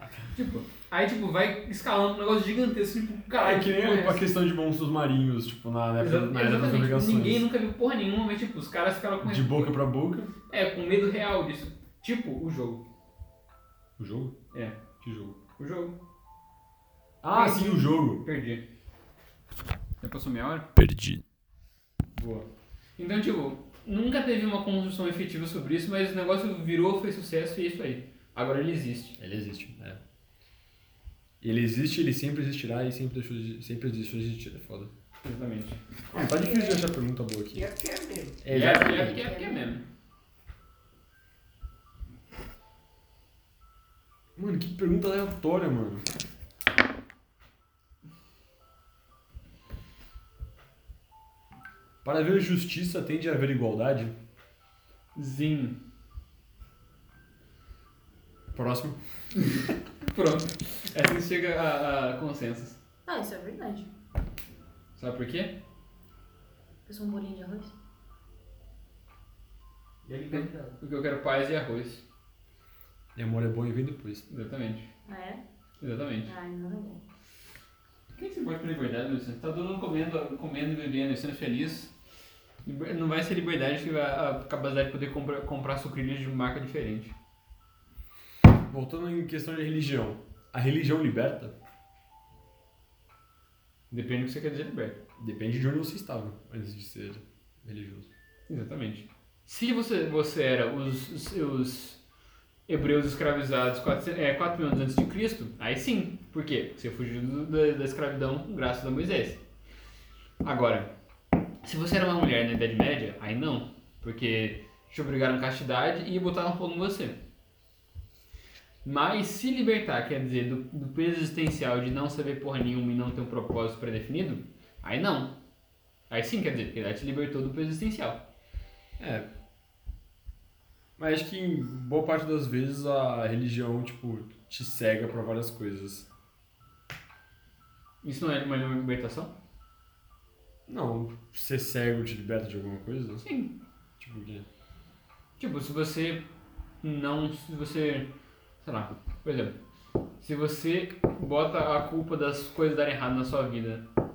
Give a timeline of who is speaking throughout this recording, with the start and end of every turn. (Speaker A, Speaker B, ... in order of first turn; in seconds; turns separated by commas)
Speaker A: 0.3-4.2, Speaker B: 3.4-7.5, Speaker A: 6.0-9.8, Speaker B: 9.2-10.3, Speaker A: 10.5-12.8, Speaker B: 14.0-14.4, Speaker A: 14.5-14.8, Speaker B: 15.0-15.4, Speaker A: 15.5-16.0, Speaker B: 17.2-18.2, Speaker A: 17.3-18.6, Speaker A: 20.0-20.7, Speaker B: 20.8-21.2, Speaker A: 22.1-22.5, Speaker A: 23.0-29.1, Speaker B: 29.2-30.0, Speaker B: 31.4-34.9, Speaker A: 35.2-35.8, Speaker B: 36.1-37.7, Speaker C: 36.1-36.9, Speaker C: 37.5-38.8, Speaker B: 38.4-39.2, Speaker A: 38.5-39.8, Speaker D: 38.8-39.7, Speaker B: 44.4-46.0, Speaker B: 52.0-54.1, Speaker A: 55.1-55.8, Speaker B: 58.5-59.0, Speaker A: 59.5-62.8, Speaker D: 63.1-63.9, Speaker A: 65.0-65.6, Speaker D: 66.9-67.7, Speaker C: 70.0-70.8, Speaker A: 70.3-72.0, Speaker B: 73.2-74.2, Speaker A: 74.3-74.9, Speaker D: 75.1-75.4, Speaker A: 75.8-76.3, Speaker D: 76.2-77.0, Speaker A: 78.1-81.9, Speaker A: 82.7-87.1, Speaker B: 88.7-91.5, Speaker A: 93.9-95.0, Speaker B: 95.2-98.1, Speaker A: 98.5-102.0, Speaker A: 102.7-109.4, Speaker A: 110.4-110.9, Speaker A: 111.6-117.2, Speaker A: 118.8-125.4, Speaker A: 126.1-128.2, Speaker B: 129.0-129.3, Speaker B: 131.0-136.1, Speaker A: 138.0-139.3, Speaker B: 140.7-143.2, Speaker A: 143.2-143.5, Speaker B: 144.0-144.5, Speaker A: 145.4-146.3, Speaker A: 146.8-148.1, Speaker A: 148.6-149.6, Speaker A: 150.2-153.8